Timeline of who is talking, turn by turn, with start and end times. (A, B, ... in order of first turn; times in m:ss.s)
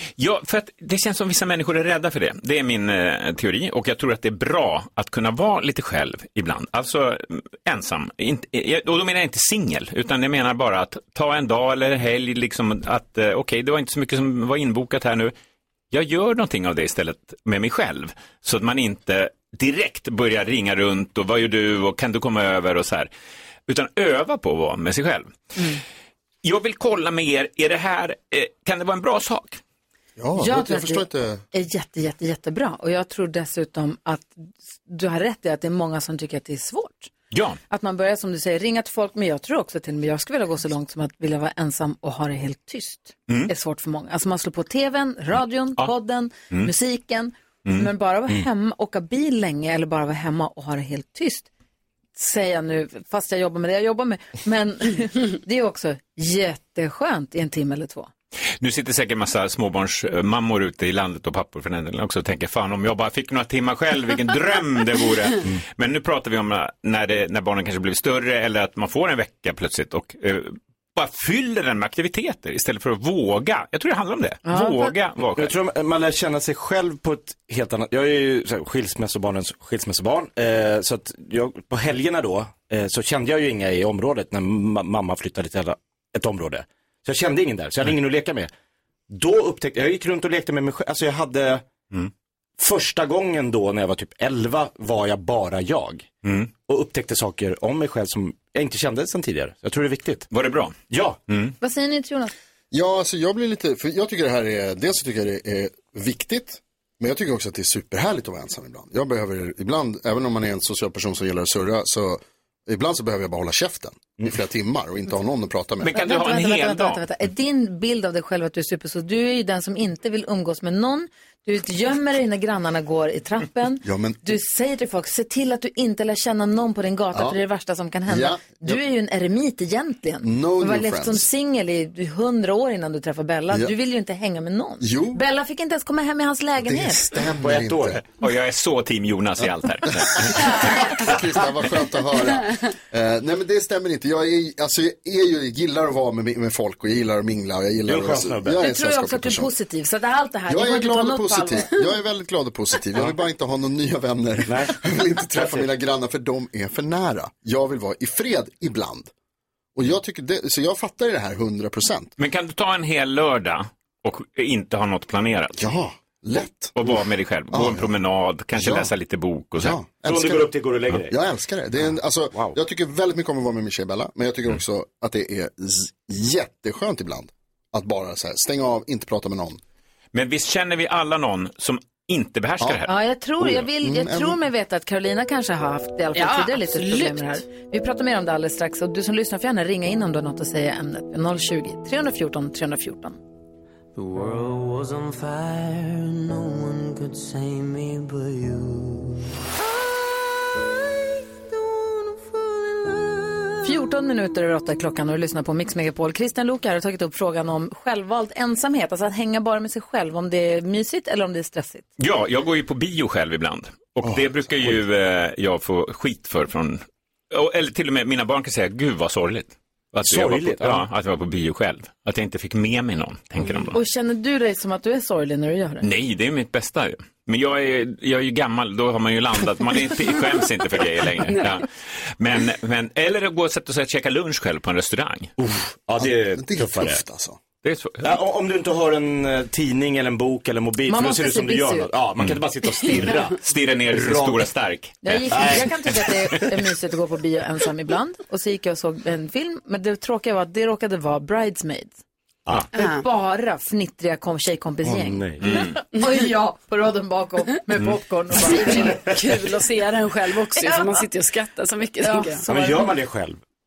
0:00.2-0:15.3 A
0:15.9-0:23.1 A
0:23.7-0:25.4 A
0:26.4-0:29.6 A
0:30.2-0:31.4 B
0:30.4-0:37.1 C
0:37.3-0:37.6 A
0:37.7-0:51.5 C
0:52.2-0:58.1 C
0:58.6-1:15.5 A
1:14.4-1:14.9 C
1:15.3-1:28.5 D
1:29.1-1:31.7 D
1:32.6-1:36.1 D
1:36.2-1:36.5 A
1:36.6-1:40.3 D
1:40.3-1:41.6 A
1:40.9-1:41.2 D
1:41.6-1:42.3 C
1:42.7-1:56.0 B
1:55.8-1:57.0 A
1:55.8-2:17.0 C
2:03.8-2:04.4 B
2:08.1-2:08.8 B
2:10.2-2:11.2 B
2:14.8-2:15.2 B
2:16.6-2:18.0 B
2:17.4-2:18.0 D
2:18.2-2:20.5 A
2:19.9-2:29.5 B
2:27.8-2:28.6 D
2:28.6-2:31.7 C
2:30.5-2:39.1 B
2:34.4-2:34.8 D
2:35.3-2:35.7 D
2:39.7-2:42.1 B
2:42.2-2:45.6 A
2:45.6-2:47.9 B
2:46.8-2:49.8 A
2:48.6-2:48.9 B
2:49.6-2:59.6 B
2:50.0-2:51.2 D
2:51.8-2:52.6 D
3:00.1-3:02.9 A
3:02.9-3:13.2 C
3:03.4-3:04.4 B
3:06.1-3:07.4 E
3:14.0-3:19.2 F
3:23.6-3:31.8 C
3:32.0-3:43.8 A
3:34.0-3:34.8 B
3:40.0-3:40.8 D
3:43.7-3:45.9 C
3:45.8-3:55.3 A
3:55.4-3:57.0 D
3:56.0-3:57.4 B
3:57.6-3:58.1 A
3:58.0-4:03.4 D
4:00.9-4:01.9 C
4:02.2-4:02.5 A
4:03.4-4:05.7 A
4:03.9-4:04.5 D
4:05.0-4:12.0 C
4:05.3-4:06.5 D
4:12.7-4:19.1 C
4:12.7-4:13.0 E
4:14.8-4:15.6 D
4:15.4-4:15.8 A
4:18.4-4:22.4 E
4:20.6-4:21.0 C
4:22.0-4:22.9 C
4:22.4-4:23.4 D